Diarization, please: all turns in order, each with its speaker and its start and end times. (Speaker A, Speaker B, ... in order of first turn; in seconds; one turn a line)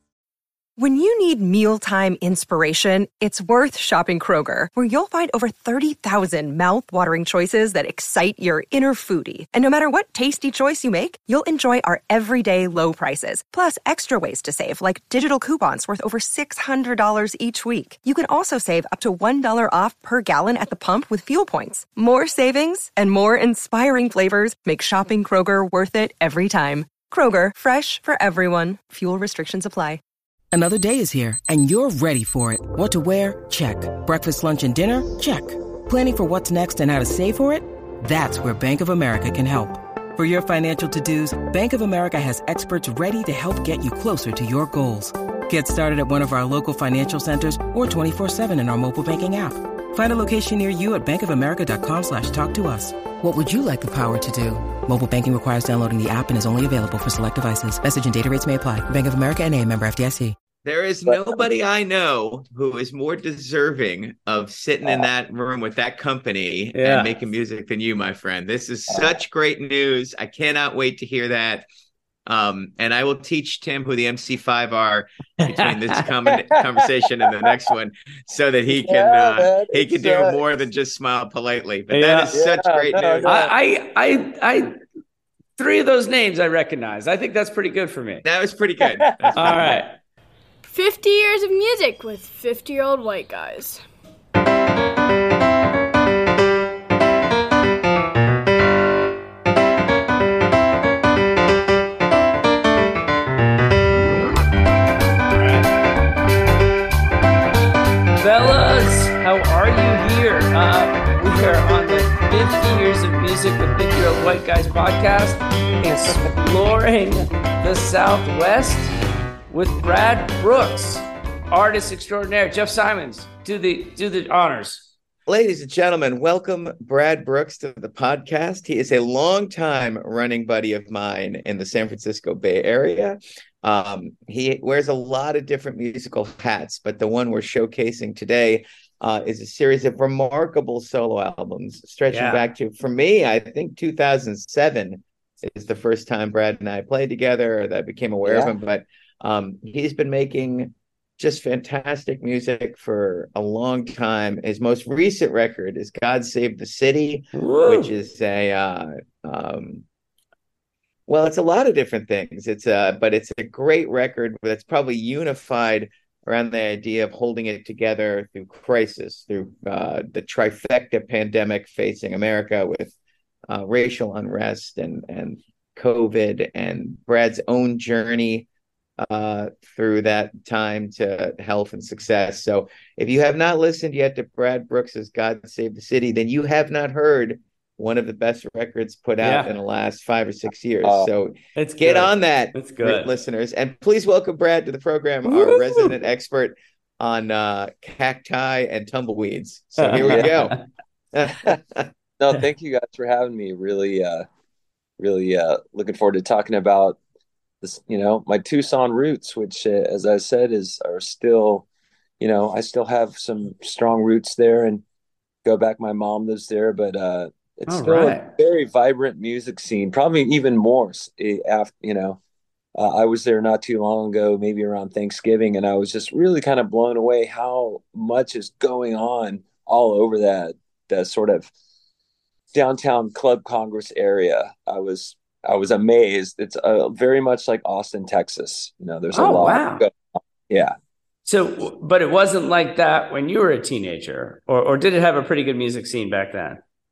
Speaker A: 0.8-30.0
Speaker B: 30.5-60.4
Speaker C: 60.6-71.7
Speaker D: 61.1-61.4
Speaker E: 66.7-67.1
Speaker C: 72.3-83.4
Speaker E: 75.5-76.0
Speaker D: 78.7-80.4
Speaker E: 81.9-82.3
Speaker D: 82.3-83.5
Speaker E: 83.3-84.7
Speaker E: 85.6-88.2
Speaker C: 88.2-89.8
Speaker E: 89.4-89.9
Speaker F: 90.7-93.8
Speaker E: 105.3-105.7
Speaker E: 108.2-118.9
Speaker D: 115.9-116.3
Speaker E: 119.5-124.9
Speaker C: 125.3-159.8
Speaker E: 142.1-142.5
Speaker D: 148.3-148.5
Speaker E: 157.3-157.9
Speaker C: 161.1-172.9
Speaker C: 173.5-178.5
Speaker C: 179.0-200.6
Speaker E: 189.2-189.5
Speaker D: 190.8-191.1
Speaker E: 191.6-193.1
Speaker E: 195.3-195.9
Speaker E: 199.8-200.6
Speaker D: 200.0-200.3
Speaker C: 201.1-201.9
Speaker D: 202.2-204.3
Speaker D: 205.0-207.0
Speaker D: 207.6-211.7
Speaker D: 212.2-214.8
Speaker D: 215.4-222.2
Speaker E: 217.7-218.3
Speaker D: 222.8-231.5
Speaker D: 232.5-240.8
Speaker E: 239.1-239.8
Speaker E: 241.3-246.6